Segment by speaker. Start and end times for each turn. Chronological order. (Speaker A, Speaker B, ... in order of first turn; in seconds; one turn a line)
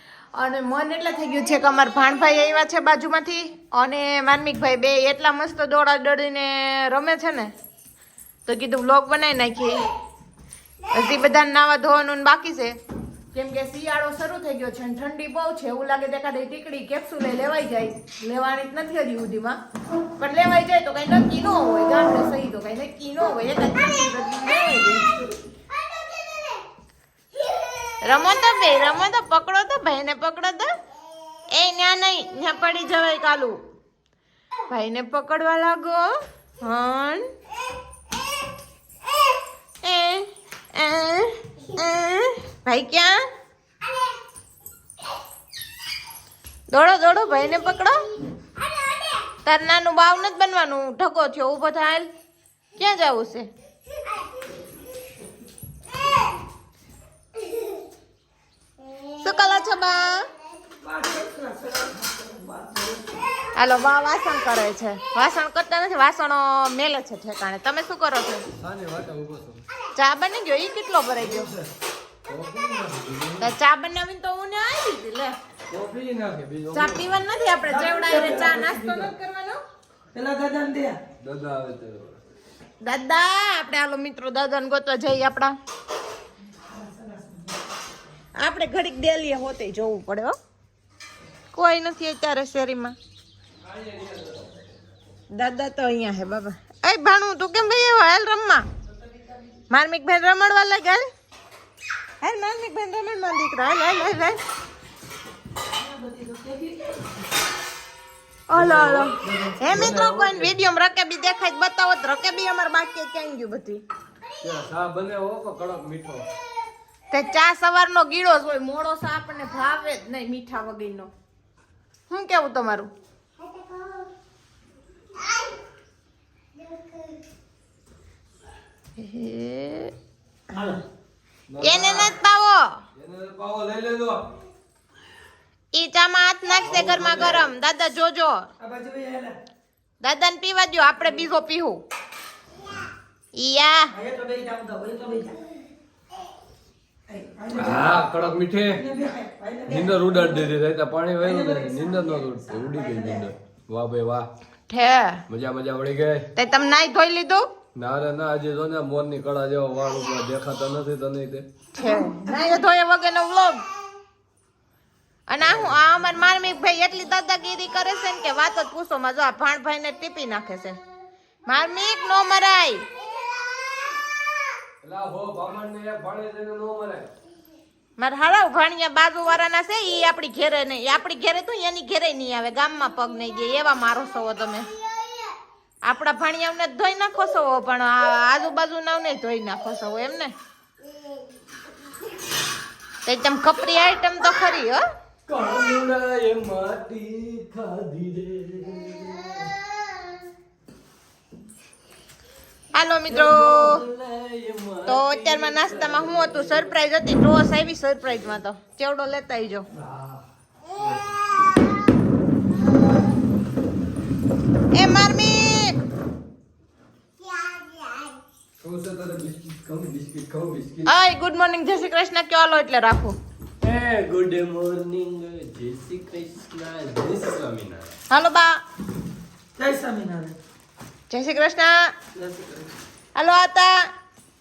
Speaker A: 0.3-7.5
Speaker A: 8.4-9.8
Speaker A: 10.9-12.8
Speaker A: 13.3-19.6
Speaker A: 20.2-25.1
Speaker A: 28.0-30.7
Speaker A: 31.5-33.5
Speaker A: 34.7-36.1
Speaker A: 36.6-37.2
Speaker A: 39.8-43.2
Speaker A: 46.7-48.0
Speaker A: 49.4-52.1
Speaker A: 52.8-53.5
Speaker A: 59.1-60.3
Speaker B: 60.7-63.2
Speaker A: 63.5-68.4
Speaker C: 68.6-69.6
Speaker A: 69.9-71.5
Speaker C: 71.3-71.7
Speaker C: 72.2-73.5
Speaker A: 73.4-75.3
Speaker C: 75.7-77.1
Speaker A: 76.7-79.6
Speaker B: 77.6-79.1
Speaker B: 80.1-81.0
Speaker C: 81.2-82.2
Speaker A: 82.8-85.5
Speaker B: 86.7-87.9
Speaker A: 88.4-90.3
Speaker A: 91.5-93.0
Speaker C: 93.6-94.6
Speaker A: 95.3-98.7
Speaker B: 99.0-99.3
Speaker A: 99.7-101.1
Speaker A: 102.2-104.4
Speaker B: 105.7-107.0
Speaker A: 108.5-113.8
Speaker C: 108.5-110.5
Speaker C: 114.4-116.2
Speaker A: 117.1-121.1
Speaker A: 122.1-122.9
Speaker A: 129.0-129.9
Speaker B: 130.5-130.8
Speaker C: 131.5-132.2
Speaker A: 131.6-132.8
Speaker C: 132.9-134.2
Speaker A: 135.7-138.4
Speaker C: 136.6-137.5
Speaker B: 138.6-139.3
Speaker A: 140.0-141.8
Speaker A: 143.3-143.9
Speaker B: 143.9-145.5
Speaker B: 147.1-148.1
Speaker C: 147.5-148.8
Speaker B: 148.7-150.5
Speaker C: 149.7-154.3
Speaker B: 151.2-153.3
Speaker A: 154.7-155.2
Speaker C: 155.3-156.3
Speaker A: 156.3-157.5
Speaker C: 157.7-161.4
Speaker A: 161.7-163.6
Speaker B: 161.8-162.6
Speaker A: 165.3-170.8
Speaker C: 165.4-165.8
Speaker A: 171.5-172.8
Speaker C: 174.8-177.1
Speaker A: 178.0-184.7
Speaker A: 185.8-190.3
Speaker A: 193.0-194.8
Speaker C: 195.3-199.5
Speaker A: 202.7-203.8
Speaker C: 203.1-206.7
Speaker A: 204.8-209.7
Speaker C: 208.0-208.4
Speaker C: 209.7-211.3
Speaker A: 214.7-215.8
Speaker C: 218.6-220.9
Speaker A: 220.8-223.2
Speaker C: 223.6-228.0
Speaker A: 228.1-228.6
Speaker B: 229.6-230.3
Speaker A: 231.1-231.9
Speaker B: 232.2-232.4
Speaker A: 233.2-233.9